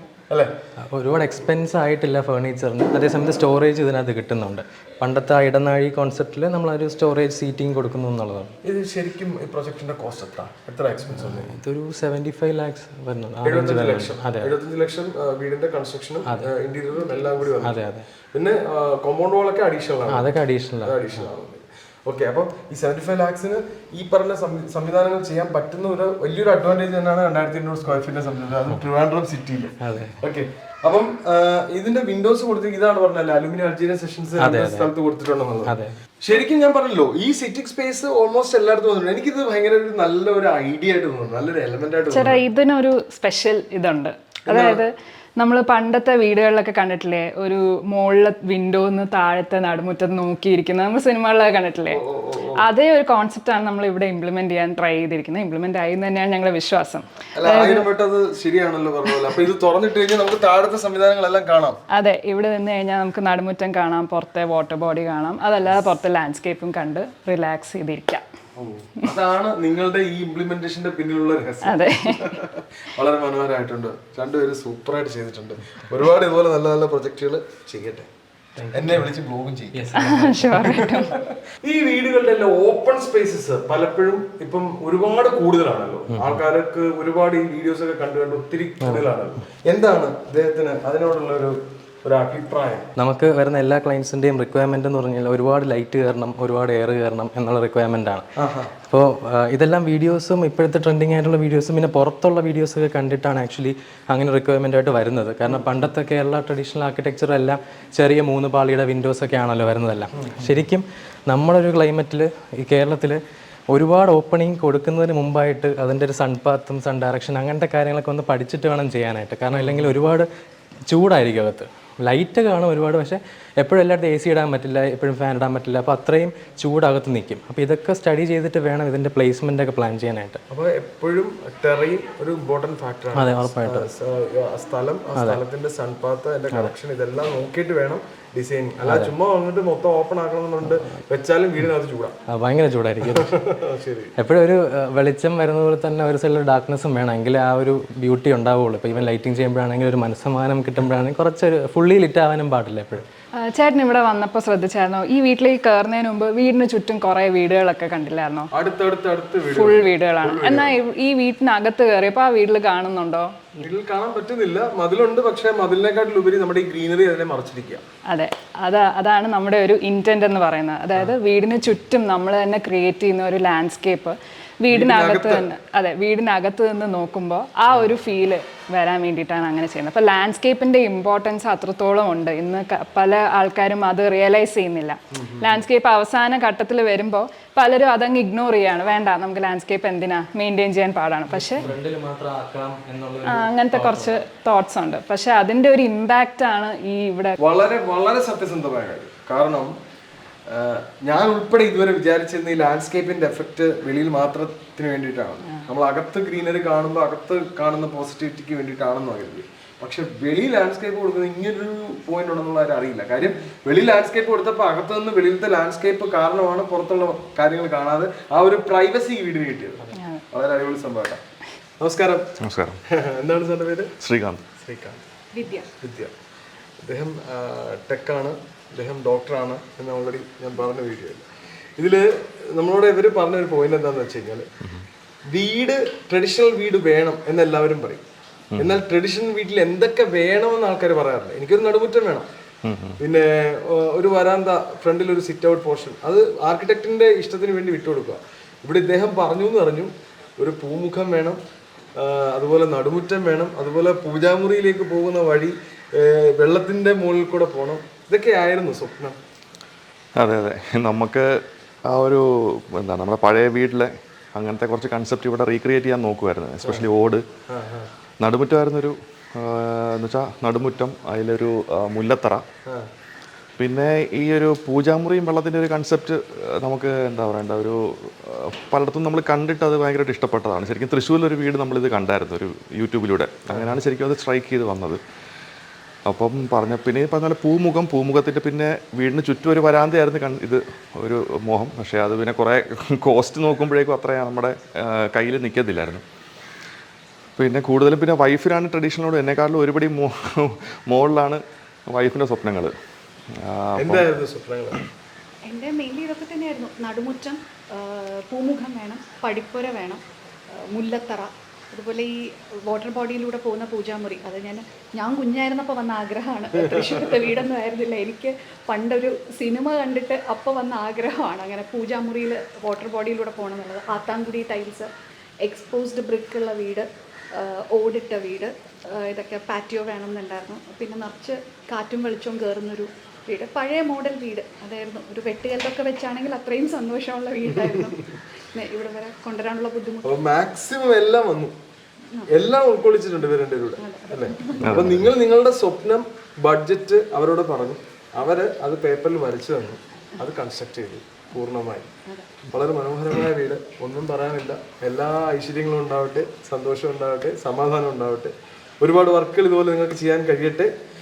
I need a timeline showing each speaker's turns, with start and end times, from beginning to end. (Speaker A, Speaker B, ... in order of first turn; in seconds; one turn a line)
Speaker A: 0.8-8.6
Speaker B: 8.6-11.6
Speaker A: 11.2-14.5
Speaker B: 13.4-42.4
Speaker A: 16.3-16.5
Speaker A: 17.6-18.1
Speaker A: 20.1-21.0
Speaker A: 29.8-30.2
Speaker A: 34.4-34.9
Speaker A: 35.7-36.0
Speaker C: 42.1-52.0
Speaker B: 44.5-44.8
Speaker B: 51.9-52.6
Speaker C: 52.6-57.9
Speaker B: 57.4-61.8
Speaker C: 61.9-68.2
Speaker B: 68.6-78.1
Speaker C: 71.6-72.3
Speaker A: 78.6-79.1
Speaker B: 78.7-92.9
Speaker A: 79.7-80.9
Speaker C: 80.0-81.2
Speaker A: 86.1-86.4
Speaker A: 88.8-89.1
Speaker A: 93.0-98.2
Speaker B: 98.4-98.7
Speaker A: 98.8-113.2
Speaker B: 110.2-110.5
Speaker A: 113.7-120.3
Speaker B: 119.5-119.9
Speaker A: 120.9-130.4
Speaker B: 130.5-142.2
Speaker A: 133.1-133.9
Speaker A: 135.2-135.4
Speaker A: 138.8-139.1
Speaker A: 142.3-143.3
Speaker B: 143.0-144.1
Speaker A: 144.2-153.1
Speaker C: 153.4-158.5
Speaker B: 158.5-160.8
Speaker C: 159.5-163.3
Speaker B: 163.6-167.8
Speaker C: 168.1-191.6
Speaker B: 174.7-175.5
Speaker B: 185.1-185.6
Speaker A: 191.3-194.2
Speaker C: 193.3-197.4
Speaker B: 197.4-199.7
Speaker B: 200.5-221.2
Speaker C: 219.9-220.2
Speaker B: 221.8-222.3
Speaker D: 222.4-222.8
Speaker B: 222.9-223.9
Speaker D: 224.0-224.4
Speaker B: 224.6-225.0
Speaker E: 225.3-225.7
Speaker B: 225.8-226.1
Speaker B: 226.8-231.2
Speaker B: 231.8-234.5
Speaker B: 235.3-238.0
Speaker B: 238.6-242.3
Speaker D: 242.7-243.0
Speaker B: 243.0-251.4
Speaker B: 252.0-259.2
Speaker D: 260.2-267.2
Speaker B: 267.5-267.9
Speaker D: 268.2-272.4
Speaker D: 273.6-285.0
Speaker D: 286.1-296.0
Speaker D: 297.4-302.7
Speaker D: 303.3-304.1
Speaker B: 303.8-304.8
Speaker E: 305.5-310.0
Speaker E: 310.7-312.1
Speaker E: 312.7-324.9
Speaker E: 325.4-340.1
Speaker B: 340.0-341.5
Speaker E: 342.1-342.4
Speaker B: 342.3-351.9
Speaker E: 343.8-344.7
Speaker D: 344.6-345.1
Speaker B: 352.5-360.7